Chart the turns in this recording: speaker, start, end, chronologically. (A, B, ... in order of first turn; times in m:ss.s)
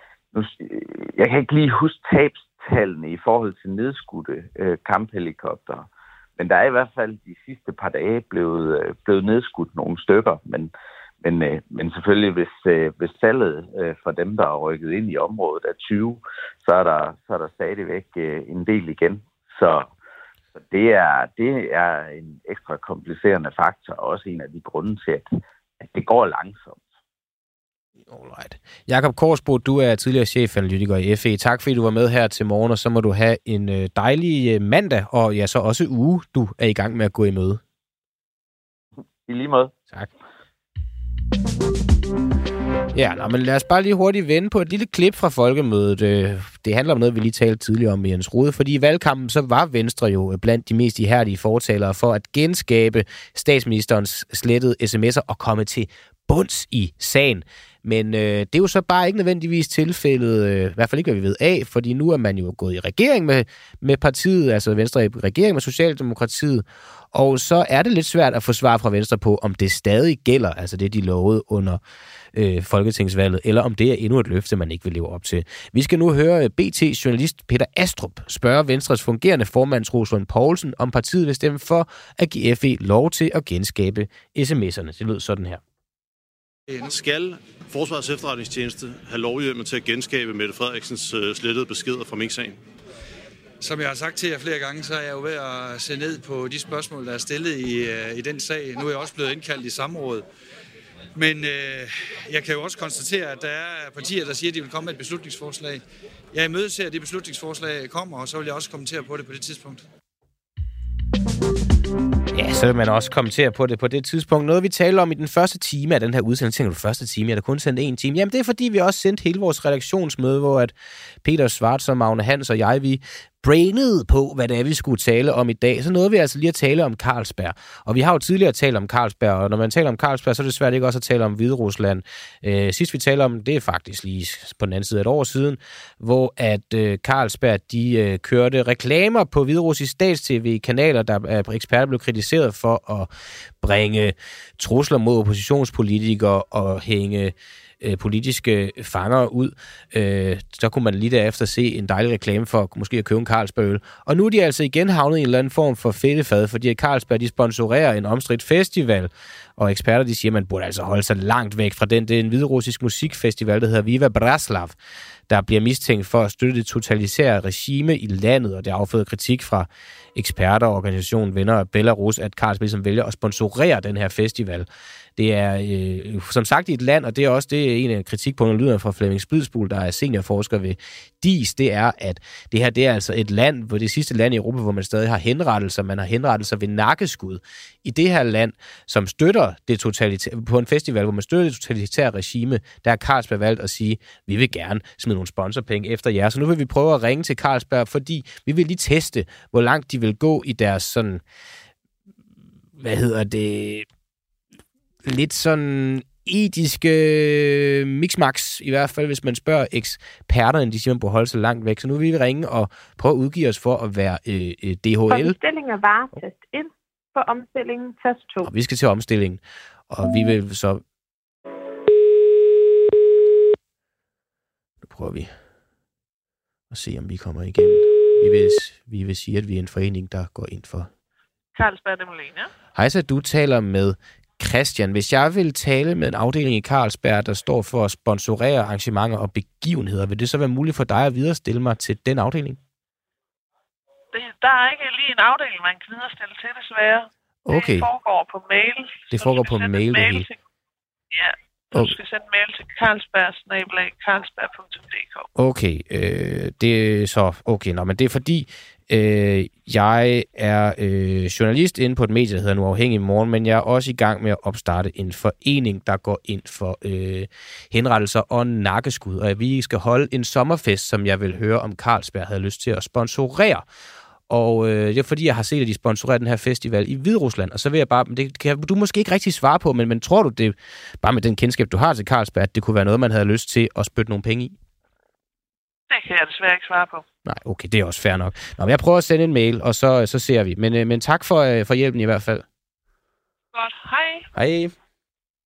0:00.3-0:19.9 A
0:20.5-0:25.3 A
0:25.8-0:26.8 A
0:28.1-0:37.6 B
0:39.3-0:39.7 A
0:42.9-1:11.8 B
1:12.3-1:25.6 B
1:26.7-1:27.0 C
1:26.8-1:32.6 D
1:33.6-1:40.2 C
1:41.1-1:49.8 C
1:52.3-2:00.7 B
2:01.2-2:23.1 B
2:23.6-2:44.7 B
2:45.3-3:21.2 B
3:22.8-3:23.9 B
3:25.0-3:35.4 B
3:35.1-3:38.5 E
3:38.4-3:40.8 B
3:44.8-3:45.3 B
3:46.7-3:50.9 B
3:51.5-3:52.5 F
3:52.8-4:02.6 B
4:04.1-4:10.4 F
4:07.4-4:07.9 B
4:09.1-4:10.3 B
4:11.1-4:15.3 F
4:15.4-4:33.6 B
4:34.3-4:44.6 B
4:45.9-4:47.0 F
4:47.2-4:52.4 B
4:53.5-4:54.3 F
4:54.3-4:54.8 B